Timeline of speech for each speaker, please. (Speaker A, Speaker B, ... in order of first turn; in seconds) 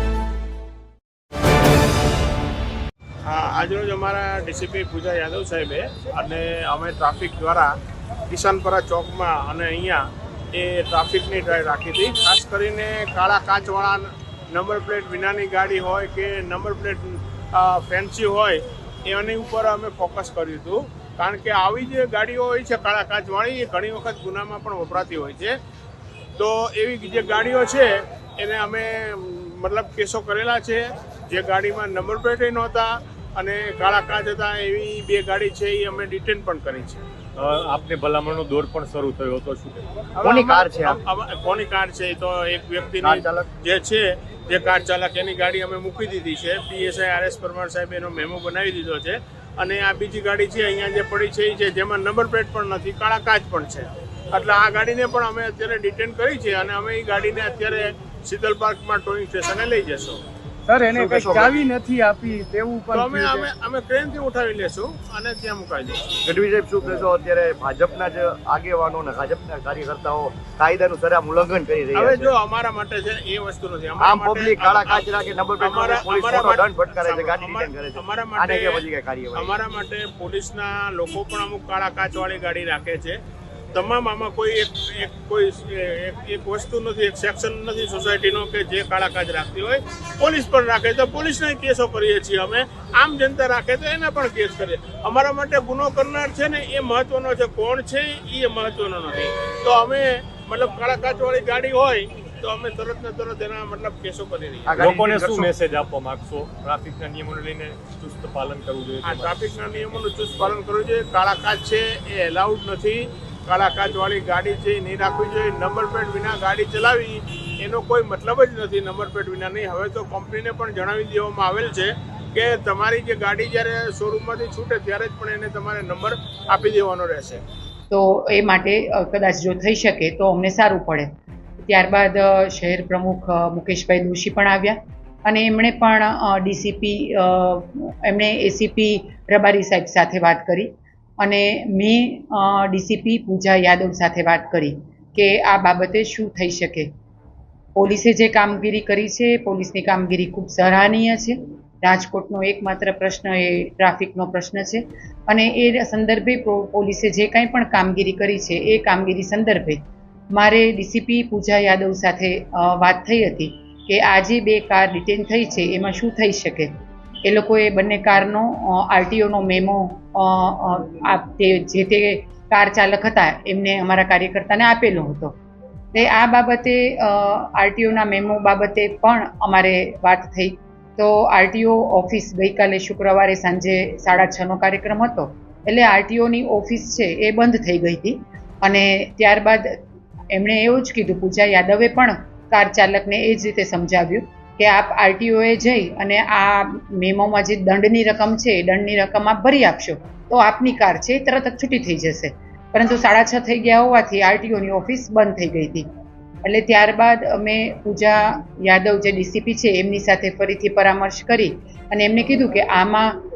Speaker A: 3.2-7.7, 8.3-25.5, 26.4-37.0, 40.2-60.2, 62.9-66.0, 71.9-75.0, 75.6-83.2, 83.7-104.8, 109.0-127.4
Speaker B: 37.4-39.9, 104.8-109.4
Speaker C: 40.2-41.0, 43.0-43.5, 60.9-61.5, 66.2-72.3, 74.0-79.6, 104.7-105.5
Speaker D: 60.7-63.5
Speaker E: 127.9-131.1, 131.6-146.9, 147.8-159.8, 160.3-166.7, 167.2-175.4, 175.9-189.7, 190.3-205.9, 206.4-213.2